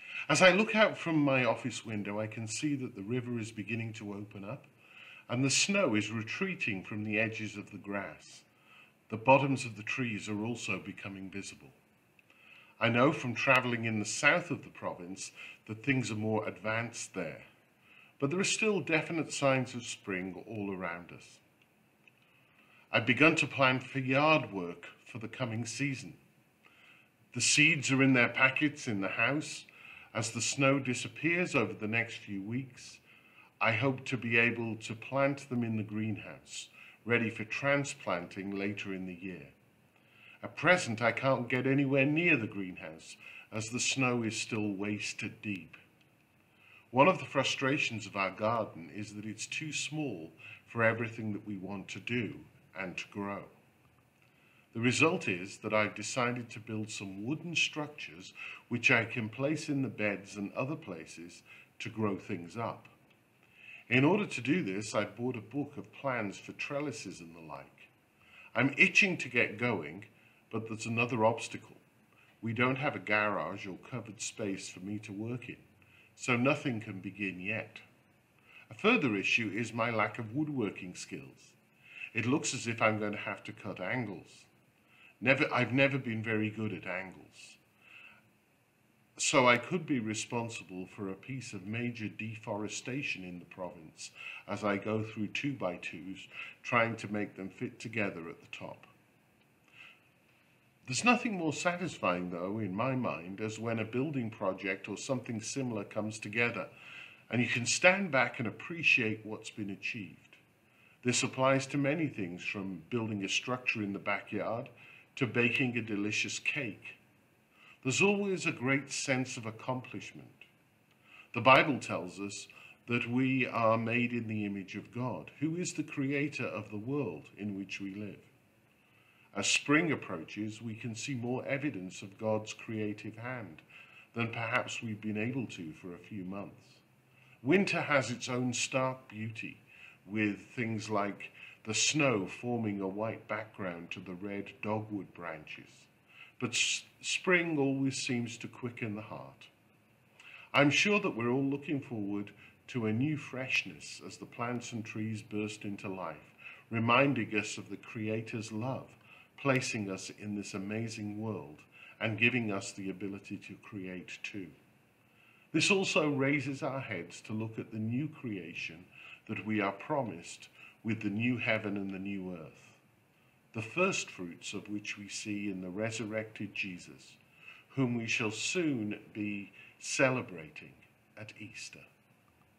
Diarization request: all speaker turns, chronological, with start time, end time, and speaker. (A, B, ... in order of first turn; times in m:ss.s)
0:00.3-0:04.7 A
0:05.3-0:08.5 A
0:09.1-0:11.8 A
0:12.8-0:17.5 A
0:18.2-0:21.4 A
0:22.9-0:26.2 A
0:27.3-0:33.0 A
0:33.6-0:39.6 A
0:40.4-0:45.8 A
0:46.9-0:53.5 A
0:54.7-1:03.0 A
1:03.9-1:07.9 A
1:08.5-1:11.8 A
1:12.4-1:15.6 A
1:16.2-1:17.8 A
1:18.7-1:21.6 A
1:22.1-1:24.5 A
1:25.2-1:27.6 A
1:29.2-1:38.9 A
1:40.8-1:46.7 A
1:47.3-1:50.4 A
1:51.0-1:57.0 A
1:57.8-2:00.5 A
2:01.3-2:08.3 A
2:09.3-2:16.8 A
2:17.4-2:29.5 A
2:30.5-2:44.6 A
2:45.5-2:52.8 A
2:53.5-2:57.2 A
2:57.7-3:01.9 A